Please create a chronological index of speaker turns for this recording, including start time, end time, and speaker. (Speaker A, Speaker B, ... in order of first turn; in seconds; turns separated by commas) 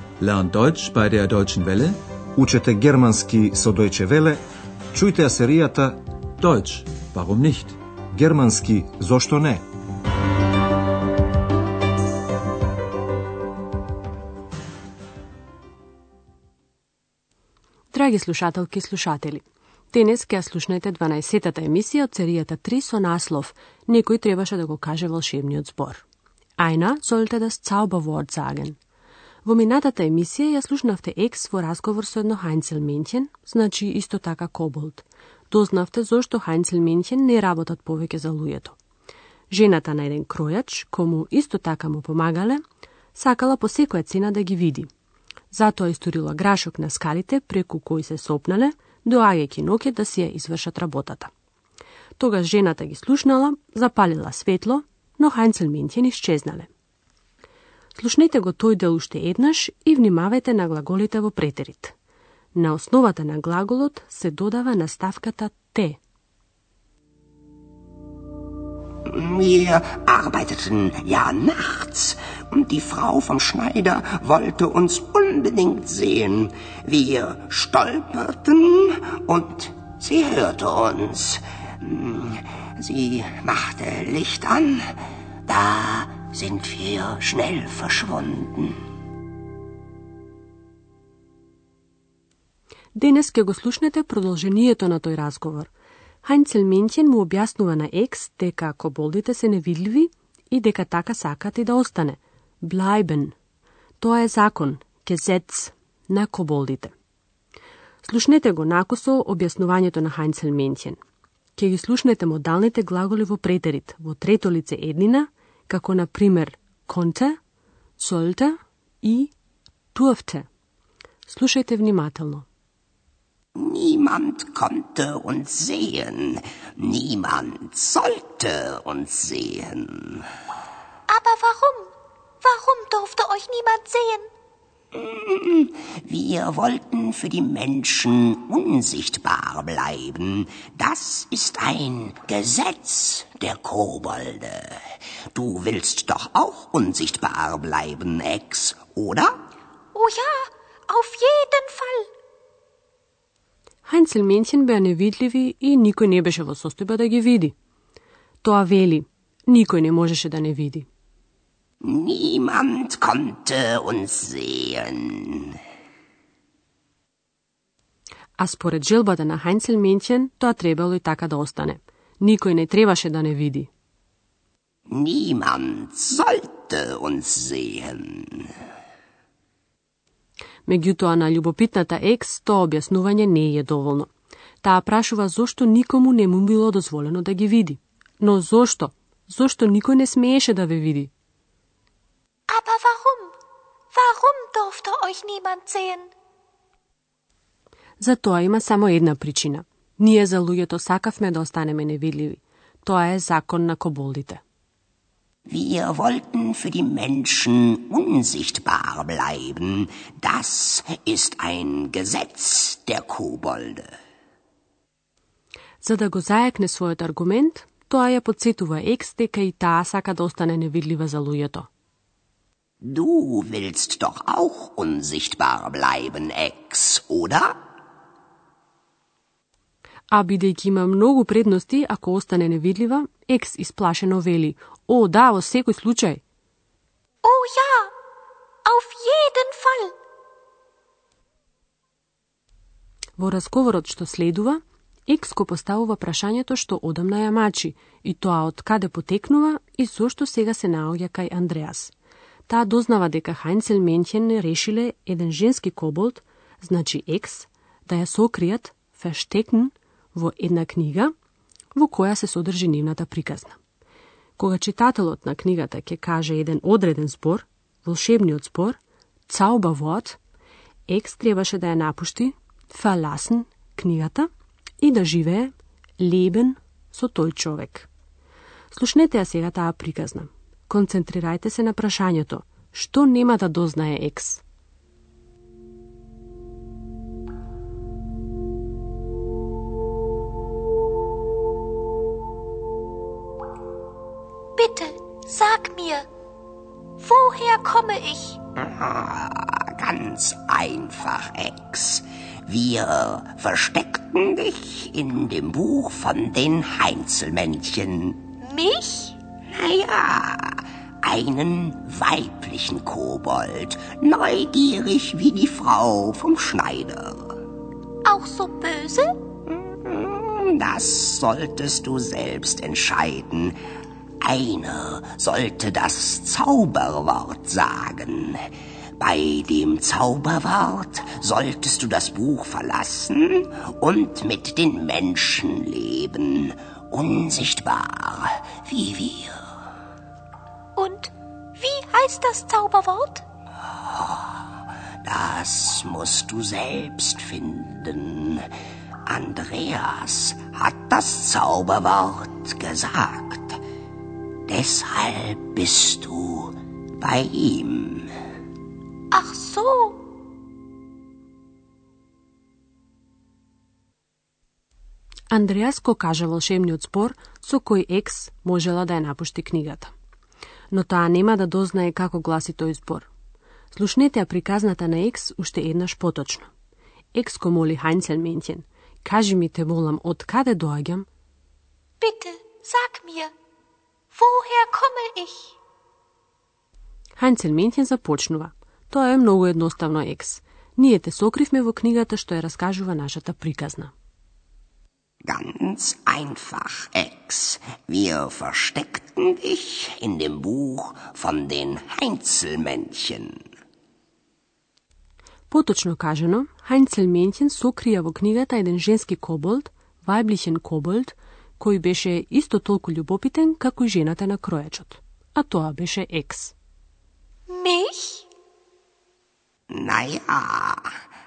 Speaker A: 0.2-2.0, Speaker B: 2.4-4.4, Speaker B: 4.9-6.0, Speaker A: 6.4-7.7, Speaker B: 8.1-9.6, Speaker C: 17.9-26.0, Speaker C: 26.6-28.8, Speaker C: 29.4-38.8, Speaker C: 39.5-42.6, Speaker C: 43.1-44.9, Speaker C: 45.5-51.3, Speaker C: 52.2-56.7, Speaker C: 58.0-61.9, Speaker C: 62.5-66.0, Speaker D: 69.0-84.8, Speaker D: 85.5-88.8, Speaker C: 93.0-95.7, Speaker C: 96.2-103.3, Speaker C: 104.0-106.9, Speaker C: 108.0-111.0, Speaker C: 111.5-117.4, Speaker C: 118.0-119.3, Speaker C: 119.9-120.5, Speaker C: 121.3-122.5, Speaker D: 123.6-130.2, Speaker E: 131.1-131.9, Speaker E: 132.4-134.3, Speaker D: 134.9-149.3, Speaker E: 149.9-152.1, Speaker C: 153.8-157.5, Speaker C: 158.4-160.9, Speaker D: 161.8-165.6, Speaker C: 168.4-173.7, Speaker D: 174.9-178.5, Speaker C: 180.7-184.1, Speaker C: 184.6-191.1, Speaker E: 192.5-193.3, Speaker E: 193.9-196.1, Speaker C: 198.0-204.4, Speaker D: 205.5-213.9, Speaker C: 215.8-221.7, Speaker D: 222.8-227.6, Speaker C: 230.1-236.2, Speaker E: 237.2-237.9, Speaker E: 238.7-239.9, Speaker C: 243.2-251.9, Speaker C: 252.5-261.1, Speaker C: 261.7-263.6, Speaker C: 264.4-270.2, Speaker C: 270.9-274.3, Speaker C: 274.8-277.9, Speaker C: 278.7-284.4, Speaker E: 294.6-296.1, Speaker E: 297.0-298.4, Speaker D: 298.6-308.2, Speaker E: 308.4-309.2, Speaker D: 309.5-317.4, Speaker E: 318.1-319.1, Speaker D: 319.5-323.6, Speaker D: 324.2-328.4, Speaker D: 329.0-339.4, Speaker E: 340.8-343.2, Speaker D: 345.0-348.5, Speaker D: 349.1-353.6, Speaker D: 354.5-358.1, Speaker E: 359.1-360.0, Speaker C: 365.3-369.9, Speaker C: 370.7-373.1, Speaker C: 373.7-376.5, Speaker C: 377.1-381.1, Speaker E: 382.0-383.3, Speaker E: 384.1-385.5, Speaker C: 387.2-393.9, Speaker D: 395.3-403.4, Speaker C: 405.5-416.5, Speaker E: 417.5-418.2, Speaker D: 419.7-420.9